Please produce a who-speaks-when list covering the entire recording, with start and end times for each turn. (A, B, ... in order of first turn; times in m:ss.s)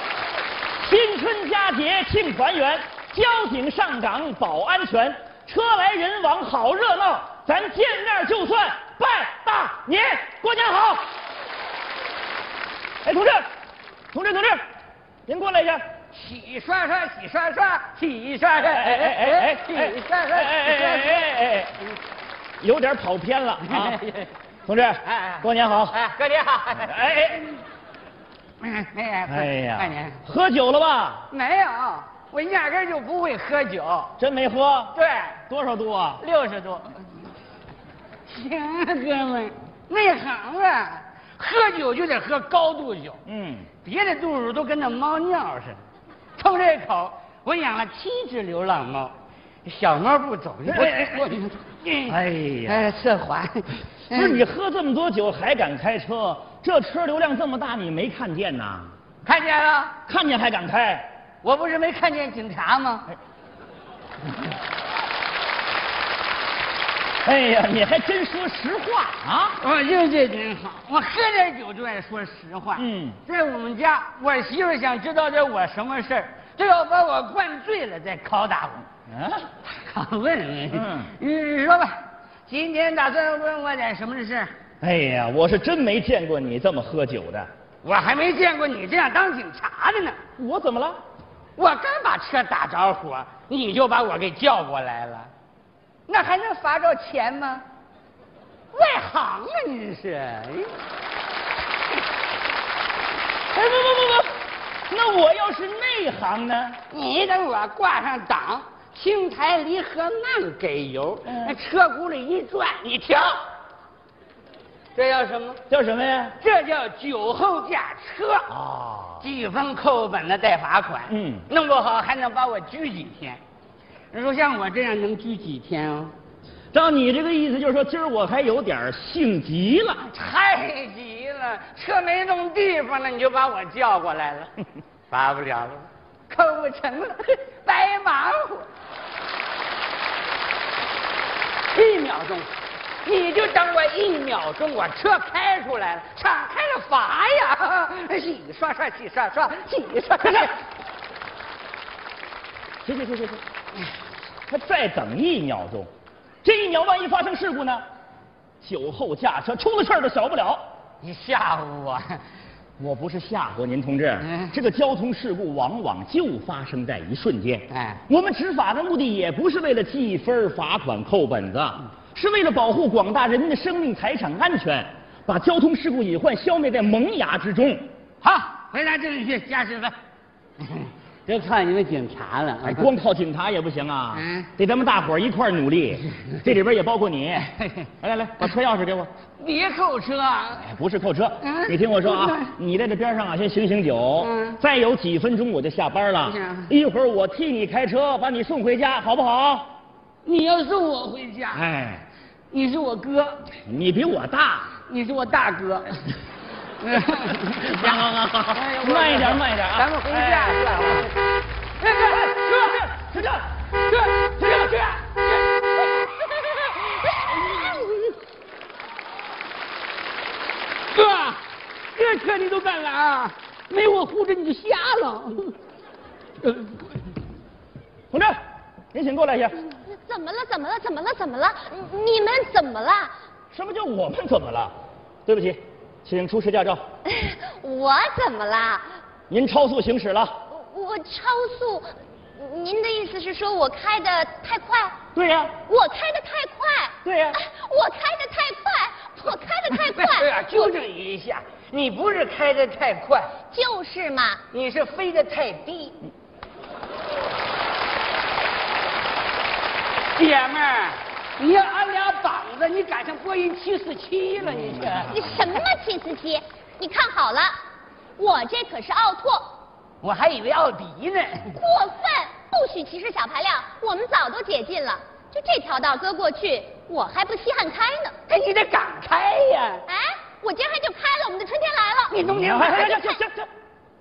0:00.8-0:11.1 A
0:13.0-0:13.5 A
0:14.1-0:14.6 A
0:15.3-0:15.8 A
0:16.1-0:21.3 B
0:18.8-0:21.7 A
0:22.6-0:24.0 A
0:23.6-0:24.3 B
0:24.7-0:26.0 A
0:25.1-0:26.9 B
0:26.8-0:27.5 A
0:28.6-0:30.2 B
0:29.3-0:31.3 A
0:31.3-0:34.1 B
0:34.2-0:34.9 A
0:35.0-0:35.4 B
0:35.5-0:36.2 A
0:36.2-0:37.1 B
0:38.3-0:43.2 B
0:43.3-0:43.7 A
0:43.8-0:45.8 B
0:46.4-0:49.1 B
0:49.6-0:54.4 B
0:52.1-0:52.8 A
0:54.1-0:58.9 A
0:59.2-1:00.0 B
1:00.1-1:01.1 A
1:01.4-1:03.1 B
1:07.2-1:09.6 A
1:09.6-1:18.9 B
1:12.8-1:13.2 A
1:19.1-1:19.5 A
1:19.6-1:24.5 B
1:20.7-1:21.1 A
1:24.8-1:27.5 A
1:27.8-1:30.2 B
1:30.4-1:31.0 A
1:31.6-1:35.3 B
1:36.1-1:37.6 B
1:38.7-1:40.7 B
1:43.5-1:44.3 A
1:44.9-1:46.8 A
1:46.9-1:53.4 B
1:51.3-1:51.6 A
1:55.0-1:55.6 B
1:55.7-1:56.4 A
1:56.4-1:58.5 B
1:58.5-1:59.2 A
1:59.2-2:03.4 B
2:01.1-2:01.5 A
2:04.1-2:06.1 B
2:06.7-2:10.1 A
2:10.1-2:14.5 B
2:15.1-2:18.7 B
2:21.7-2:22.5 B
2:23.0-2:30.6 B
2:32.8-2:33.4 A
2:34.5-2:35.9 A
2:36.4-2:37.8 A
2:38.6-2:40.6 A
2:41.0-2:42.2 B
2:42.8-2:57.9 A
2:44.2-2:44.5 B
2:47.7-2:48.0 B
2:58.2-3:00.0 B
3:00.6-3:02.9 B
3:02.6-3:09.1 A
3:04.2-3:04.5 B
3:09.4-3:10.7 B
3:10.6-3:19.7 A
3:11.4-3:12.5 B
3:14.2-3:14.6 B
3:16.2-3:16.7 B
3:20.2-3:21.6 B
3:21.5-3:22.1 A
3:22.5-3:23.5 B
3:23.7-3:24.7 A
3:24.9-3:26.1 B
3:26.8-3:31.1 B
3:27.6-3:30.8 A
3:31.8-3:32.9 B
3:32.1-3:33.5 A
3:33.9-3:38.2 B
3:40.9-3:41.4 B
3:42.0-3:45.6 B
3:46.4-3:46.9 B
3:48.1-3:48.4 A
3:48.9-3:49.6 A
3:49.9-3:53.1 C
3:53.5-3:54.7 A
3:55.3-3:56.8 A
3:57.1-3:58.9 C
3:59.3-4:00.4 A
4:00.5-4:05.0 C
4:05.2-4:05.6 A
4:05.7-4:10.7 C
4:07.0-4:07.4 A
4:09.7-4:13.3 B
4:13.5-4:14.4 C
4:14.5-4:16.0 B
4:20.2-4:25.2 B
4:25.1-4:27.5 C
4:28.2-4:29.5 C
4:30.0-4:31.6 B
4:31.5-4:38.2 C
4:38.3-4:39.8 B
4:39.9-4:42.2 C
4:42.1-4:43.1 B
4:42.3-4:43.5 A